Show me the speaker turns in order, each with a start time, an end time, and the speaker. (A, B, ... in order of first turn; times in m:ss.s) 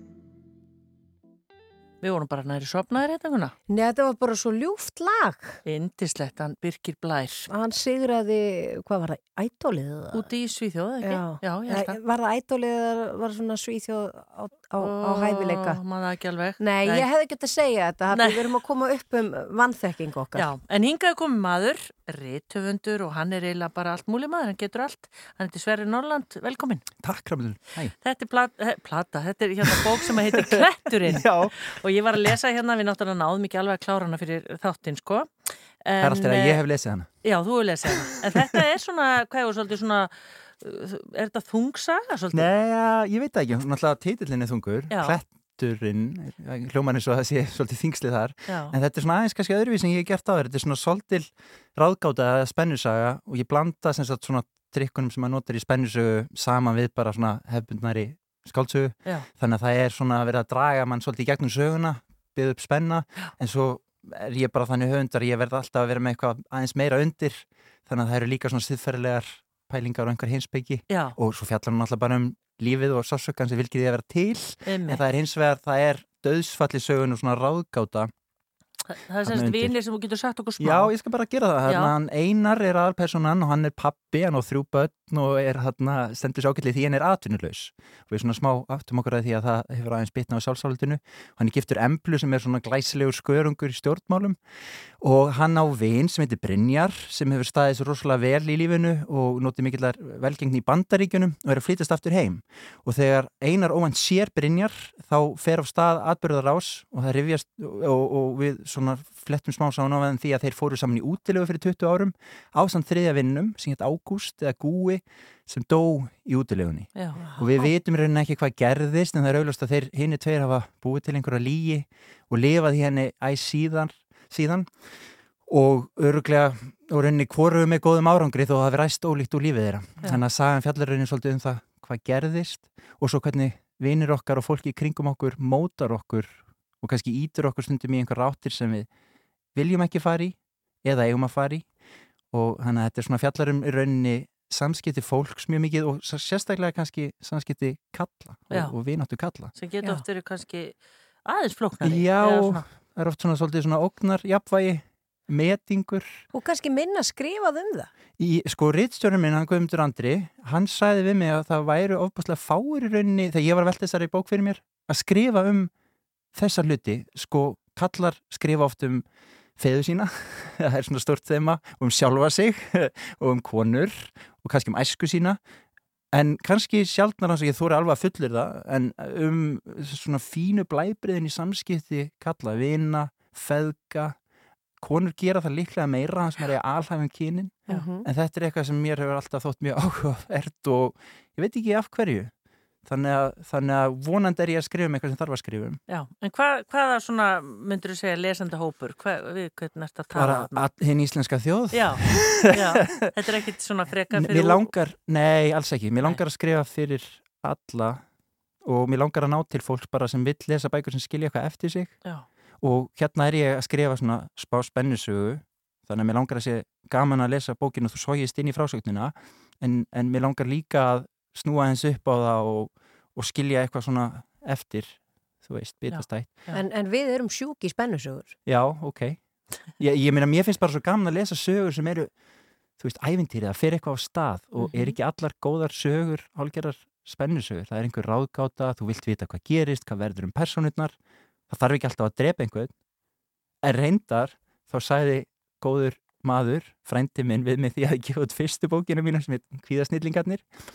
0:02.0-0:03.5 A
0:03.7-0:05.6 B
0:05.6-0:07.5 A
0:07.5-0:10.3 B
0:10.1-0:12.0 A
0:11.0-0:15.8 B
0:14.8-0:17.0 A
0:16.6-0:20.5 B
0:18.1-0:18.4 A
0:20.3-0:26.9 A
0:27.0-0:27.9 C
0:28.0-0:35.3 A
0:29.8-0:31.6 C
0:35.8-0:36.6 A
0:36.0-0:37.1 C
0:37.2-0:42.5 A
0:42.3-1:18.1 C
0:44.9-0:45.2 A
0:48.5-0:48.7 A
1:10.9-1:11.2 A
1:14.6-1:15.0 A
1:18.9-1:20.9 A
1:19.2-1:19.8 C
1:20.6-1:34.4 C
1:21.6-1:21.9 A
1:35.0-2:18.9 C
1:56.9-1:57.2 A
1:57.2-1:57.7 B
2:19.5-2:21.7 C
2:22.3-2:29.5 C
2:29.5-2:32.6 A
2:31.8-2:36.2 C
2:36.3-2:37.9 B
2:38.2-2:45.7 C
2:46.3-2:49.0 C
2:49.6-2:55.4 C
2:56.1-3:04.2 C
3:04.8-3:12.3 C
3:07.7-3:08.1 B
3:12.8-3:15.8 C
3:15.9-3:20.7 A
3:20.1-3:23.2 C
3:21.7-3:24.7 A
3:24.1-3:28.0 C
3:28.6-3:32.0 C
3:32.6-3:46.5 C
3:45.9-3:46.6 A
3:46.5-3:48.4 B
3:48.4-3:49.2 C
3:49.8-3:52.1 C
3:52.8-4:01.0 C
3:54.6-3:54.9 A
4:01.5-4:02.7 C
4:03.6-4:10.5 C